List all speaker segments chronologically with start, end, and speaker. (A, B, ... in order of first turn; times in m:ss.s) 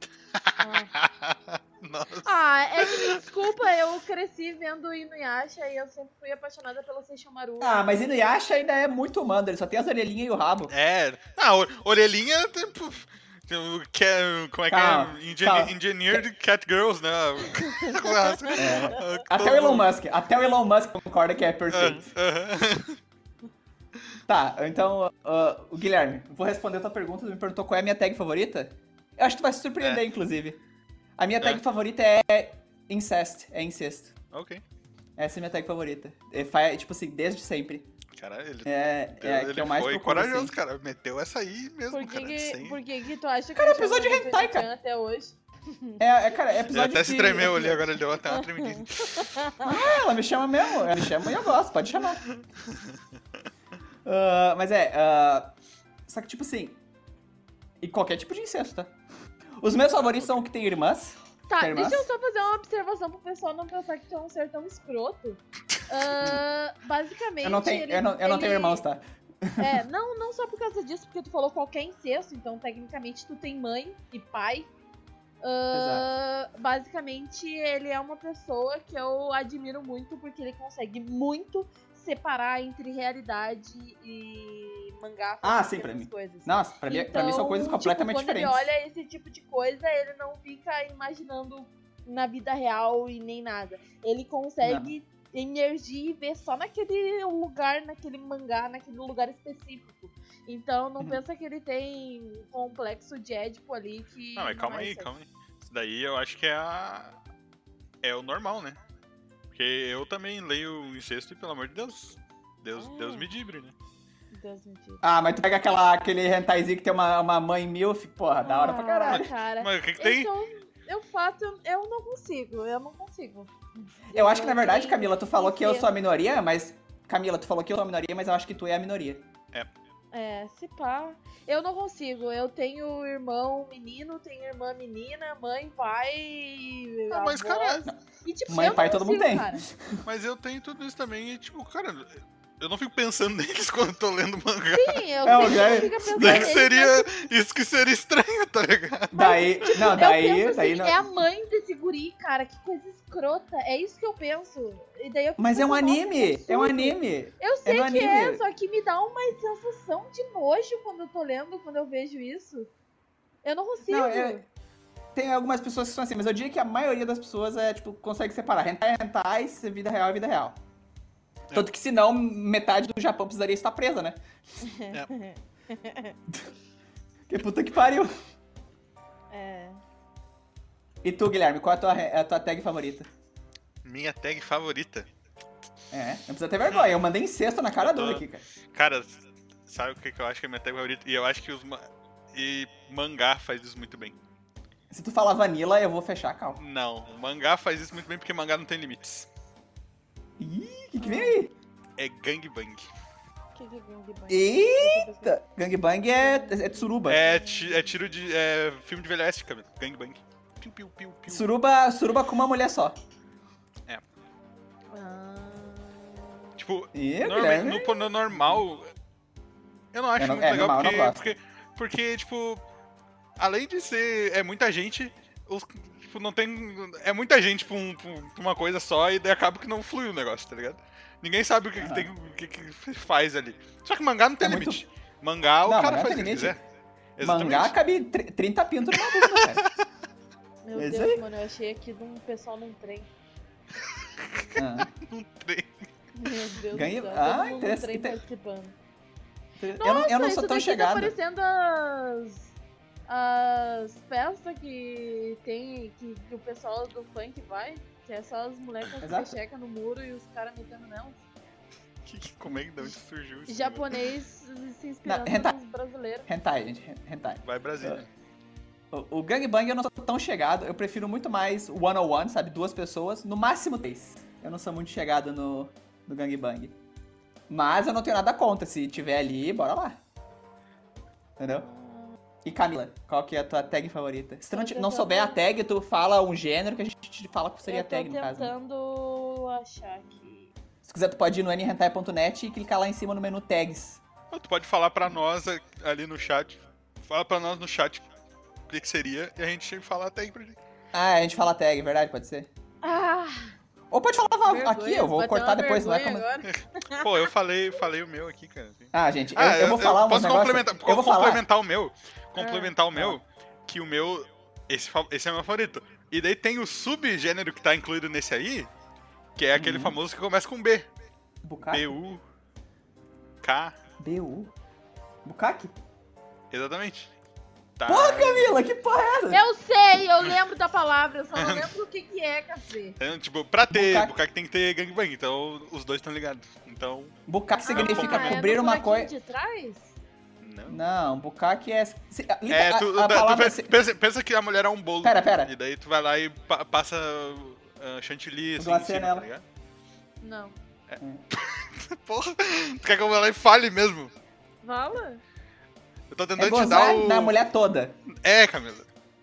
0:00.3-0:03.2 A
0:00.6-0:00.9 B
0:02.2-0:07.8 B
0:07.6-0:10.7 C
0:10.7-0:19.9 A
0:14.7-0:16.2 C
0:17.6-0:19.0 B
0:18.5-0:22.0 C
0:21.7-0:23.0 A
0:24.3-0:30.6 C
0:31.2-0:34.1 C
0:34.3-0:34.6 A
0:35.2-0:37.9 C
0:38.1-0:42.8 A
0:38.6-0:40.5 C
0:41.9-0:46.0 B
0:43.6-0:44.7 C
0:46.0-0:47.9 C
0:46.7-0:49.4 A
0:48.3-0:49.7 B
0:49.6-0:52.2 C
0:52.3-0:53.0 A
0:54.0-0:55.5 C
0:56.1-0:56.8 C
0:57.8-0:58.9 C
0:59.6-1:02.1 C
1:00.1-1:00.4 A
1:01.5-1:08.8 B
1:07.4-1:09.8 C
1:09.6-1:14.7 B
1:15.4-1:45.1 B
1:15.7-1:16.1 C
1:25.4-1:28.7 C
1:34.6-1:34.9 C
1:44.4-1:47.2 A
1:48.0-1:48.8 A
1:49.5-1:53.7 A
1:52.8-1:53.3 B
1:54.3-1:55.0 B
1:55.0-1:59.3 C
1:58.4-2:05.9 B
1:59.1-2:00.3 A
2:04.1-2:09.3 C
2:10.1-2:19.6 B
2:17.1-2:17.8 A
2:17.8-2:20.0 C
2:20.0-2:25.0 A
2:24.7-2:27.1 B
2:25.2-2:26.6 C
2:26.1-2:29.3 A
2:29.1-2:31.0 C
2:29.1-2:42.7 B
2:35.4-2:38.4 C
2:43.4-2:44.4 B
2:43.9-2:44.4 C
2:45.1-2:50.6 C
2:51.5-2:54.2 C
2:54.6-2:56.2 B
2:57.3-2:58.1 C
2:59.3-2:59.8 B
3:01.0-3:03.1 C
3:03.8-3:05.1 A
3:05.9-3:08.4 C
3:06.7-3:06.9 A
3:07.8-3:14.2 A
3:14.9-3:16.6 C
3:16.6-3:19.3 A
3:20.4-3:21.5 C
3:21.0-3:21.4 B
3:22.0-3:22.9 A
3:23.5-3:25.4 B
3:24.3-3:27.2 C
3:26.1-3:27.0 B
3:27.0-3:31.5 A
3:31.3-3:33.0 C
3:34.9-3:36.4 B
3:36.6-3:38.9 A
3:36.9-3:38.6 C
3:39.9-3:42.6 A
3:40.2-3:41.3 C
3:43.4-3:56.6 A
3:51.8-3:52.1 C
3:54.4-3:54.8 C
3:55.6-3:56.6 C
3:57.2-3:57.8 A
3:57.2-3:59.6 C
3:58.9-3:59.7 A
4:00.6-4:03.1 B
4:00.7-4:01.2 C
4:04.0-4:05.9 A
4:04.6-4:04.9 C
4:06.1-4:08.8 B
4:06.7-4:08.2 C
4:09.6-4:11.1 C
4:09.8-4:12.5 B
4:13.1-4:21.2 B
4:19.0-4:19.4 C
4:22.0-4:24.0 A
4:23.5-4:26.3 B
4:25.0-4:25.6 C
4:26.3-4:28.0 C
4:27.4-4:28.1 A
4:28.9-4:36.7 C
4:37.5-4:40.0 C
4:41.4-4:41.7 C
4:41.5-4:42.2 B
4:42.4-4:48.5 C
4:44.5-4:45.4 B
4:47.6-4:50.5 B
4:50.8-4:54.0 C
4:54.3-4:58.1 A
4:58.7-5:00.6 A
5:00.9-5:02.5 C
5:02.8-5:03.5 B
5:03.9-5:06.3 C
5:04.4-5:07.3 B
5:06.4-5:18.7 A
5:08.9-5:11.4 C
5:12.4-5:12.7 B
5:12.9-5:13.2 C
5:19.4-5:20.9 A
5:19.6-5:20.0 C
5:21.4-5:21.9 C
5:21.7-5:22.2 A
5:23.4-5:23.7 A
5:24.0-5:24.5 C
5:25.2-5:25.7 C
5:26.5-5:27.1 A
5:27.8-5:28.6 A
5:27.9-5:29.4 C
5:29.3-5:33.0 B
5:31.3-5:31.7 A
5:33.0-5:37.2 A
5:33.7-5:34.1 C
5:37.3-5:39.1 C
5:37.6-5:40.0 B
5:37.7-5:38.4 A
5:40.4-5:40.8 A
5:40.7-5:43.7 C
5:42.5-5:49.4 A
5:45.0-5:45.5 C
5:48.6-5:49.3 C
5:50.2-5:50.6 B
5:50.9-5:54.1 A
5:54.6-5:55.2 B
5:56.1-5:57.3 A
5:56.4-5:58.0 C
5:58.1-5:58.9 A